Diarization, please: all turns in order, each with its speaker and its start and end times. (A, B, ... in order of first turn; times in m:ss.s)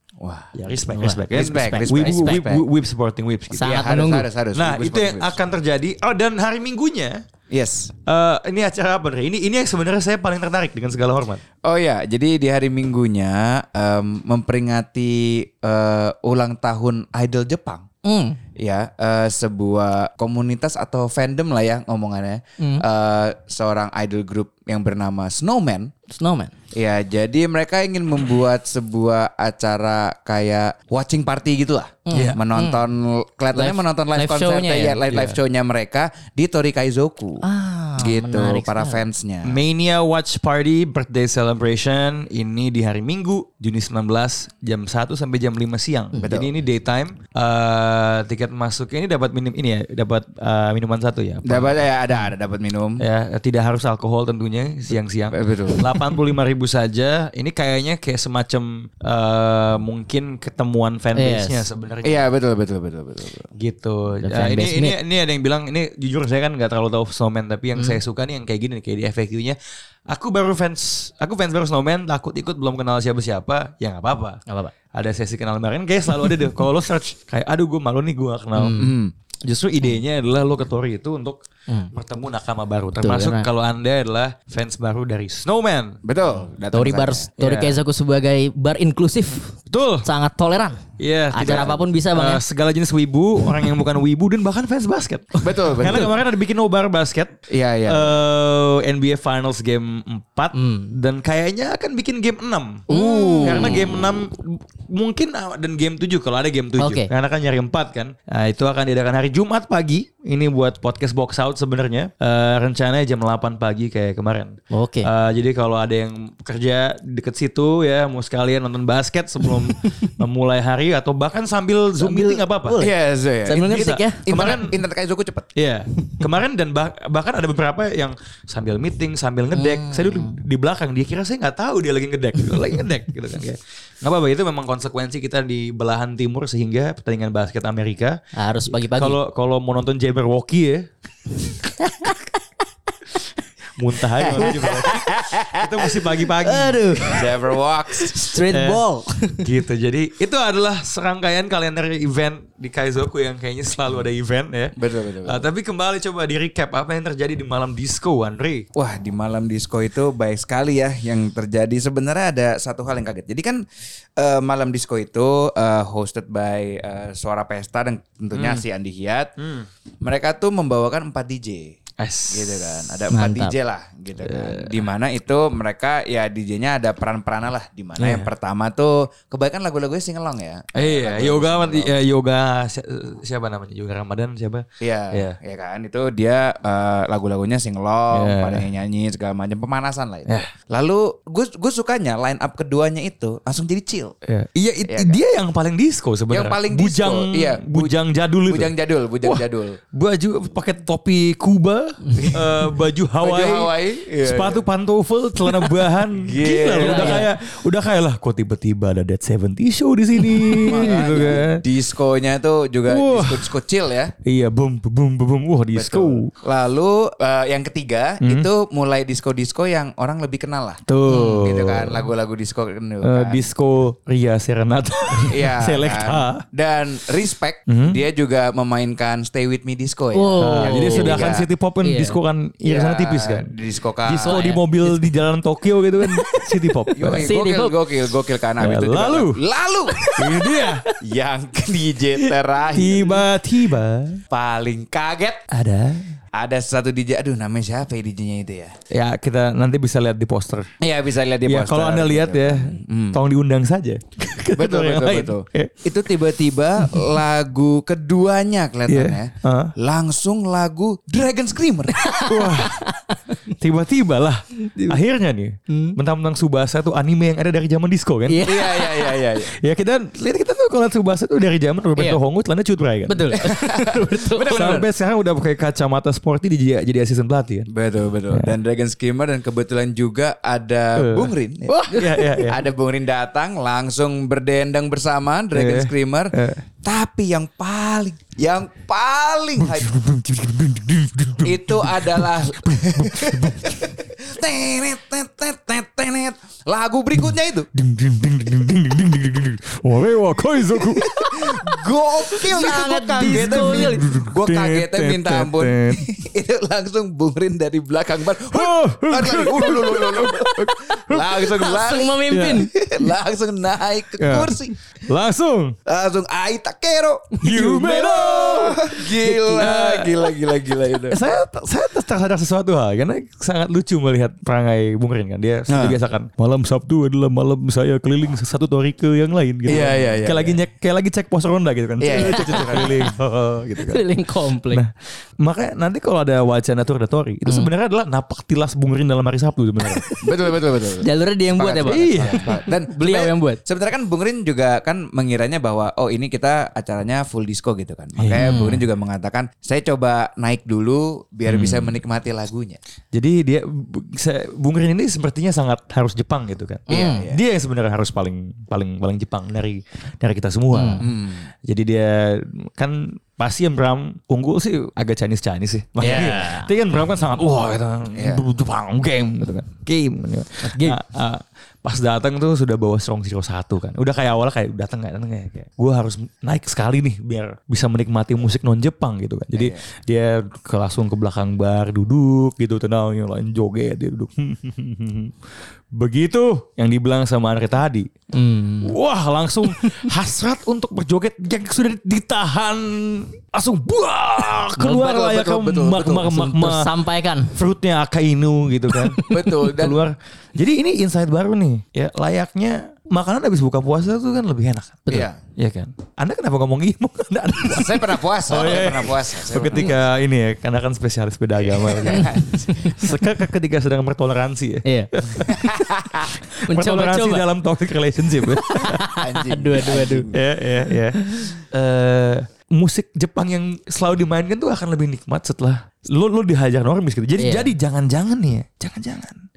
0:00.2-0:00.5 A
0:00.5-0:03.9 B
0:00.9-0:02.4 C
0:01.3-0:02.6 A
0:03.6-0:04.3 C
0:03.6-0:05.4 A
0:04.5-0:07.2 B
0:07.5-0:07.9 A
0:08.1-0:11.4 B
0:11.6-0:17.8 A
0:18.0-0:18.4 C
0:18.6-0:25.9 A
0:22.6-0:22.8 C
0:26.1-0:26.5 C
0:26.8-0:37.4 A
0:32.1-0:32.8 C
0:32.1-0:32.4 B
0:33.5-0:35.0 C
0:35.1-0:35.4 B
0:37.4-0:39.0 C
0:38.0-0:39.6 A
0:39.4-0:51.8 B
0:46.2-0:46.5 A
0:51.4-0:53.0 A
0:53.0-1:02.3 B
0:55.3-0:55.8 A
1:01.2-1:01.6 C
1:02.0-1:03.5 A
1:03.6-1:09.6 B
1:04.2-1:05.0 C
1:10.1-1:14.4 B
1:14.5-1:14.7 C
1:14.9-1:18.9 B
1:18.6-1:18.9 C
1:18.8-1:19.1 A
1:19.4-1:26.0 B
1:23.0-1:23.5 C
1:26.0-1:27.7 A
1:26.7-1:30.8 C
1:29.7-1:30.1 B
1:31.0-2:02.8 B
1:31.3-1:32.4 C
1:35.4-1:36.1 A
1:37.5-1:38.2 A
1:40.5-1:40.9 C
1:42.9-1:43.9 C
1:43.4-1:43.8 A
1:46.8-1:47.1 C
1:54.7-1:55.1 C
2:02.0-2:04.6 C
2:02.8-2:05.5 A
2:03.6-2:04.8 B
2:05.6-2:18.2 B
2:06.0-2:06.2 C
2:09.5-2:10.4 C
2:18.4-2:19.2 C
2:18.7-2:20.9 B
2:21.7-2:22.4 C
2:23.8-2:27.0 B
2:24.2-2:25.6 C
2:26.4-2:27.4 C
2:27.1-2:28.4 A
2:28.0-2:29.5 C
2:28.5-2:28.8 B
2:29.4-2:38.7 B
2:34.8-2:35.5 A
2:38.8-2:43.6 A
2:44.2-2:49.3 A
2:48.3-2:48.6 B
2:49.4-2:49.7 B
2:50.0-2:51.8 A
2:52.0-2:52.9 B
2:52.3-3:02.0 A
2:53.1-2:53.6 C
2:58.0-2:58.3 B
3:00.8-3:05.4 B
3:04.8-3:14.2 A
3:08.1-3:08.7 B
3:14.3-3:31.6 B
3:14.9-3:15.2 A
3:16.3-3:19.8 A
3:23.2-3:24.6 A
3:26.2-3:27.3 A
3:26.8-3:27.3 C
3:30.4-3:31.1 C
3:30.6-3:34.1 A
3:32.9-3:33.5 B
3:34.2-3:36.3 B
3:35.8-3:43.5 A
3:38.2-3:38.5 B
3:40.9-3:42.1 B
3:41.1-3:41.4 C
3:43.0-3:46.4 B
3:45.3-3:51.5 A
3:47.7-3:48.0 B
3:50.1-3:51.3 C
3:50.4-3:53.5 B
3:51.8-3:52.2 C
3:52.6-3:54.5 A
3:54.1-3:57.3 B
3:54.2-3:55.1 C
3:56.0-3:56.3 C
3:57.0-4:00.1 A
3:57.0-3:57.8 C
3:58.6-3:59.4 B
4:00.0-4:00.9 C
4:00.2-4:00.8 B
4:01.0-4:03.3 A
4:02.7-4:04.2 B
4:04.3-4:05.4 A
4:05.5-4:06.2 B
4:06.4-4:08.8 A
4:08.9-4:10.7 B
4:10.8-4:13.2 A
4:11.5-4:15.9 B
4:14.6-4:22.1 A
4:18.9-4:19.7 B
4:22.0-4:23.4 C
4:22.3-4:22.8 B
4:23.6-4:28.9 B
4:24.6-4:25.0 C
4:25.7-4:26.0 C
4:28.3-4:29.0 C
4:28.4-4:29.5 A
4:29.4-4:33.5 B
4:33.1-4:34.7 C
4:33.4-4:34.9 A
4:34.5-4:37.7 B
4:37.7-4:50.0 A
4:41.0-4:42.7 B
4:45.5-4:46.6 B
4:49.6-4:54.0 B
4:51.4-4:57.7 A
4:57.7-5:01.6 B
5:00.8-5:14.8 A
5:02.4-5:04.1 C
5:02.6-5:06.0 B
5:08.5-5:11.5 B
5:11.5-5:12.7 C
5:12.3-5:12.7 B
5:14.2-5:15.8 B
5:15.9-5:21.2 A
5:17.4-5:20.2 B
5:19.2-5:19.6 C
5:21.1-5:34.0 B
5:25.7-5:26.0 A
5:29.7-5:30.6 A
5:32.0-5:33.1 A
5:32.2-5:33.0 C
5:33.8-5:34.8 C
5:34.7-5:40.0 B
5:40.0-5:40.2 C
5:40.2-5:52.8 A
5:41.0-5:43.6 C
5:41.9-5:42.5 B
5:48.2-5:48.6 B
5:48.4-5:48.8 C
5:51.5-5:52.0 B
5:53.1-6:01.1 B
5:56.9-5:57.2 C
5:56.9-5:57.4 A
6:00.7-6:01.0 C
6:01.0-6:01.5 A
6:01.6-6:25.4 B
6:06.0-6:06.4 A
6:06.0-6:06.7 C
6:08.1-6:08.4 A
6:10.6-6:11.0 C
6:19.5-6:19.8 A
6:25.9-6:28.1 B
6:28.3-6:29.0 C
6:28.8-6:36.9 B
6:34.8-6:36.4 A
6:36.3-6:37.5 C
6:37.5-6:55.7 B
6:38.9-6:39.5 C
6:39.3-6:40.0 A
6:45.1-6:45.4 A
6:47.6-6:50.0 A
6:51.6-6:53.0 A
6:52.1-6:53.0 C
6:54.8-6:57.4 C
6:55.6-6:56.2 A
6:56.7-6:59.1 B
6:58.5-7:00.3 C
6:59.1-7:00.4 A
7:00.3-7:09.4 B
7:01.2-7:01.5 C
7:07.4-7:07.7 C